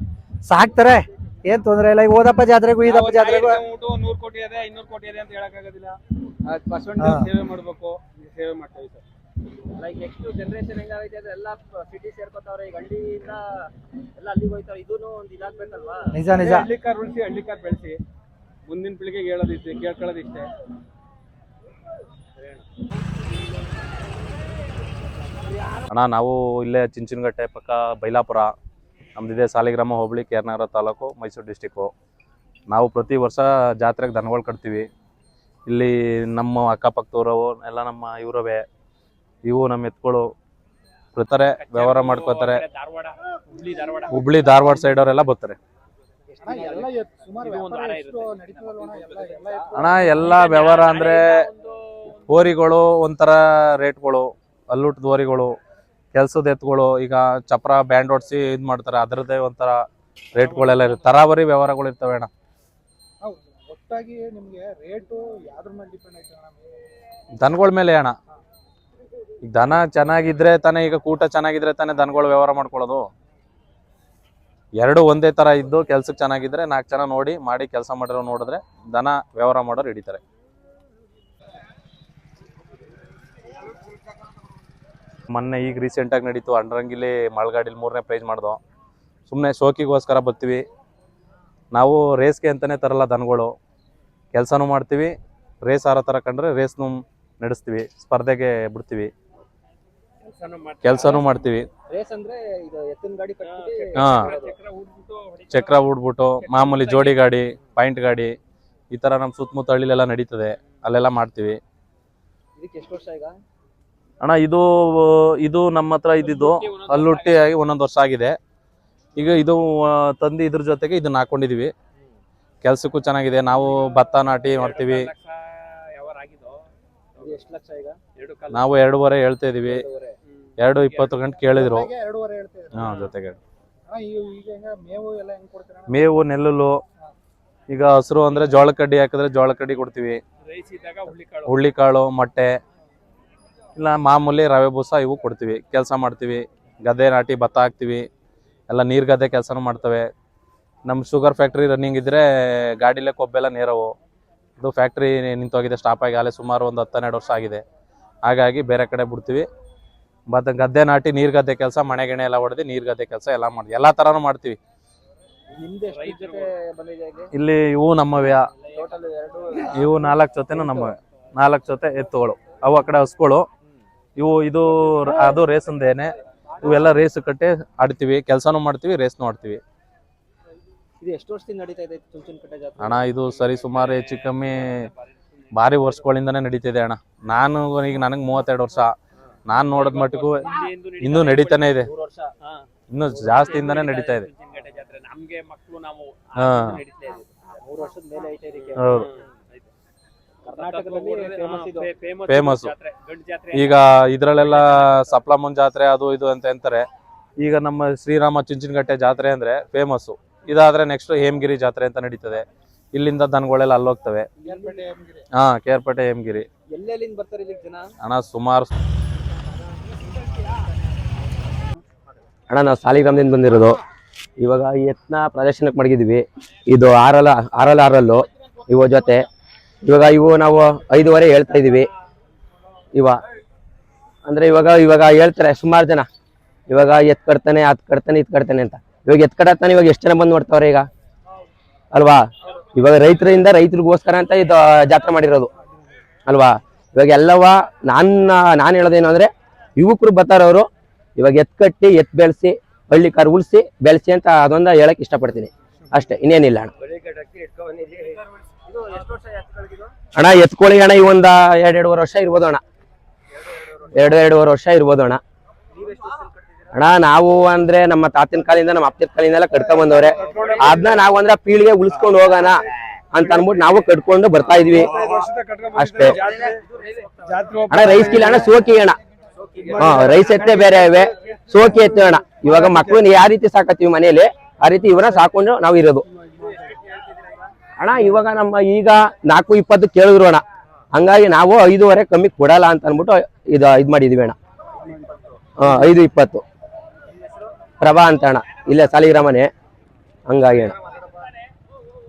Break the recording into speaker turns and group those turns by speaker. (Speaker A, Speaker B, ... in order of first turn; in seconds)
Speaker A: 0.5-3.6, 7.0-7.3, 16.1-16.7
Speaker B: 2.8-9.0, 16.3-18.0, 18.7-20.5, 41.5-44.3, 47.4-49.2, 50.2-52.3, 100.2-101.5, 103.4-107.4, 116.2-117.5, 123.6-126.7, 128.2-128.8, 130.3-131.3, 140.4-141.7, 165.9-166.5, 183.2-186.0, 189.7-191.8, 192.4-192.7, 193.2-197.6, 198.8-199.7, 200.5-205.1, 270.2-271.0, 274.6-276.6, 277.3-278.4, 280.1-280.5
Speaker C: 9.8-16.2, 46.3-46.9, 49.2-50.1, 101.9-104.6, 112.6-113.4, 127.2-128.0, 129.6-130.2, 165.5-167.3, 168.7-170.9, 181.0-183.1, 191.8-192.3, 193.1-193.6, 197.6-199.1, 200.4-201.9, 214.4-214.8, 216.7-217.9, 256.8-259.9, 263.4-264.0, 265.7-266.7, 270.1-270.9, 276.1-278.5, 279.4-280.9, 286.6-287.4, 294.8-295.4, 297.1-297.5, 300.6-301.1
Speaker D: 25.9-28.5, 29.2-31.9, 32.7-34.9, 35.7-38.6, 39.5-40.3, 41.1-42.6, 44.1-45.6, 49.8-51.5, 52.3-55.5, 56.1-59.8, 60.3-62.3, 67.4-68.1, 69.5-73.1, 74.8-80.2, 85.3-88.6, 89.3-90.6, 91.7-93.5, 94.3-99.1, 100.8-101.7, 103.9-104.3, 105.5-108.4, 108.9-111.6, 114.2-118.4, 119.2-121.7, 122.6-125.1, 128.5-129.8, 130.6-131.9, 132.7-133.4, 135.9-136.8, 137.7-140.2, 141.5-142.6, 143.8-148.1, 148.7-150.1, 150.9-153.9, 154.6-157.6, 158.2-159.5, 160.3-164.6, 167.3-168.5, 169.7-173.5, 174.2-179.6, 182.8-184.7, 185.5-188.9, 189.5-190.5, 191.0-191.9, 192.9-194.3, 196.4-196.8, 198.8-199.1, 202.3-202.8, 203.5-206.9, 207.4-214.3, 215.4-216.5, 218.0-218.7
Speaker E: 46.4-50.4, 63.2-66.6, 131.4-133.0, 133.9-136.1, 214.4-215.2, 275.1-275.4, 286.2-286.7
Speaker F: 222.5-223.8, 224.4-229.3, 229.8-231.9, 234.2-236.1, 236.7-240.9, 241.9-245.5, 246.3-256.7, 260.1-262.6, 263.9-265.2, 266.7-275.0, 275.7-276.2, 277.7-279.0, 279.8-286.1, 287.8-294.4, 295.6-296.4, 297.8-299.5, 300.3-300.7